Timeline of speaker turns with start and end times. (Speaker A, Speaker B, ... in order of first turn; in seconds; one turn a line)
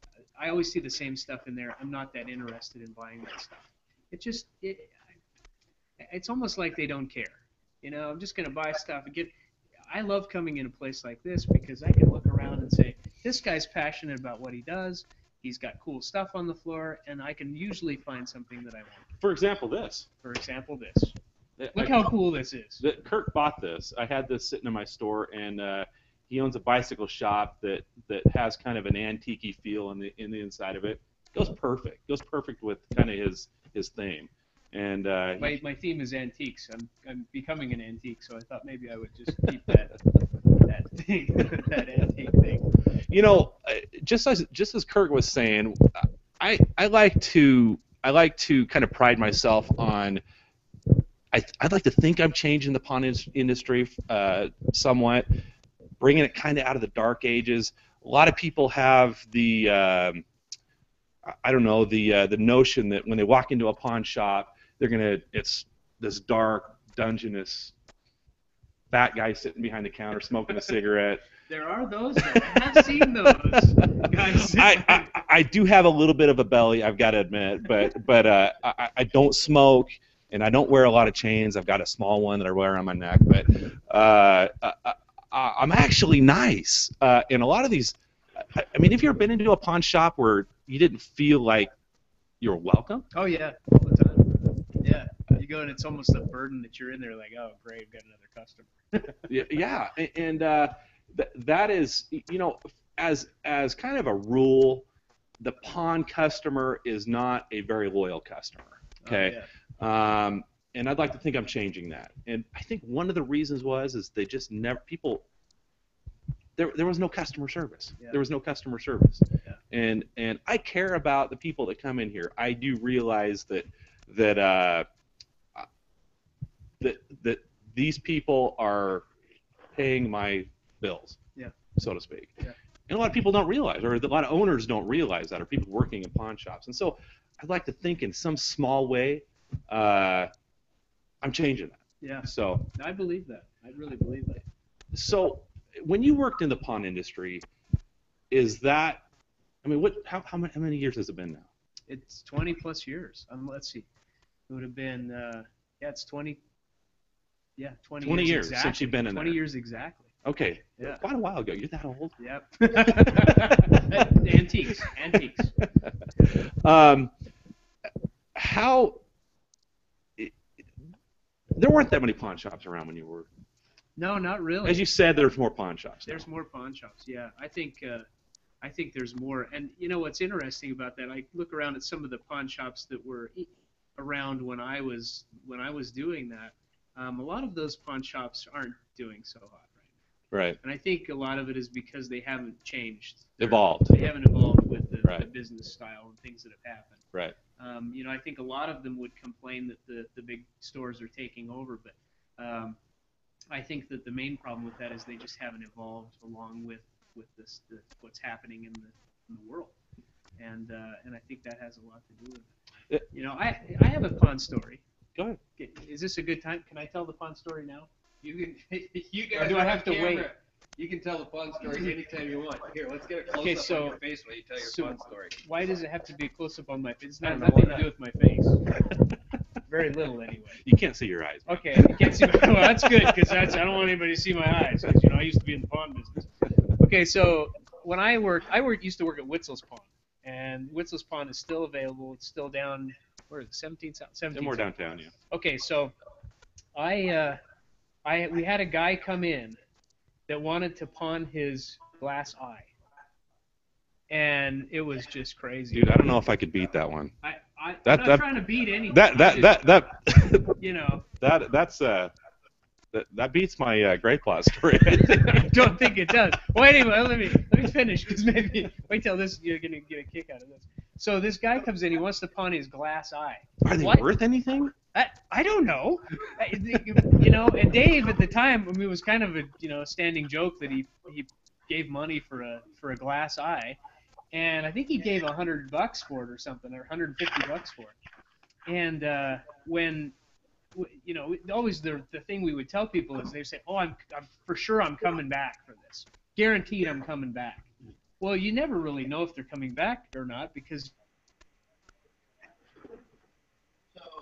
Speaker A: 0.4-4.9
Speaker A: 6.0-9.3
Speaker A: 9.9-19.1
Speaker B: 19.2-20.1
Speaker A: 20.2-21.1
Speaker B: 21.6-22.1
Speaker A: 21.7-22.8
Speaker B: 22.8-35.6
Speaker A: 35.4-40.0
Speaker A: 40.6-42.7
Speaker B: 43.1-50.2
Speaker B: 51.3-55.3
Speaker B: 56.0-60.2
Speaker B: 61.2-67.7
Speaker B: 68.9-71.2
Speaker A: 71.5-75.1
Speaker B: 72.2-91.7
Speaker B: 92.4-93.1
Speaker A: 93.1-99.3
Speaker B: 99.3-104.8
Speaker B: 105.4-115.2
Speaker A: 109.0-109.5
Speaker B: 116.6-124.8
Speaker B: 126.8-129.1
Speaker B: 129.7-131.2
Speaker B: 131.8-132.4
Speaker B: 132.9-140.3
Speaker B: 141.2-142.7
Speaker A: 142.0-144.4
Speaker B: 144.9-147.4
Speaker B: 148.3-149.0
Speaker B: 149.6-151.5
Speaker A: 151.9-153.8
Speaker A: 154.5-156.4
Speaker A: 157.6-160.1
Speaker B: 158.0-159.4
Speaker B: 160.2-162.1
Speaker A: 162.2-165.5
Speaker B: 162.7-164.1
Speaker B: 164.7-167.1
Speaker B: 168.3-169.0
Speaker B: 171.5-173.3
Speaker A: 174.0-174.8
Speaker B: 174.6-176.2
Speaker A: 176.1-178.1
Speaker A: 178.6-189.9
Speaker B: 190.3-190.6
Speaker A: 190.6-197.0
Speaker B: 193.4-193.9
Speaker A: 197.6-202.8
Speaker A: 203.5-209.7
Speaker A: 210.4-212.5
Speaker A: 213.1-214.8
Speaker B: 215.2-215.4
Speaker A: 215.6-217.9
Speaker C: 218.2-225.4
Speaker A: 219.3-220.3
Speaker A: 223.4-224.0
Speaker A: 224.6-228.7
Speaker C: 227.2-227.9
Speaker A: 229.7-230.6
Speaker B: 230.6-233.6
Speaker A: 231.5-244.7
Speaker B: 244.3-245.1
Speaker A: 245.2-245.9
Speaker A: 246.7-247.4
Speaker A: 248.0-249.6
Speaker A: 250.3-252.7
Speaker A: 254.1-256.0
Speaker B: 255.7-257.1
Speaker A: 257.2-259.8
Speaker B: 257.8-258.3
Speaker B: 258.9-260.6
Speaker A: 260.6-261.0
Speaker B: 261.2-262.1
Speaker B: 262.9-265.7
Speaker A: 264.9-274.1
Speaker B: 273.6-274.7
Speaker A: 274.9-283.8
Speaker A: 284.3-287.9
Speaker A: 288.6-290.1
Speaker A: 290.7-297.6
Speaker A: 298.2-300.9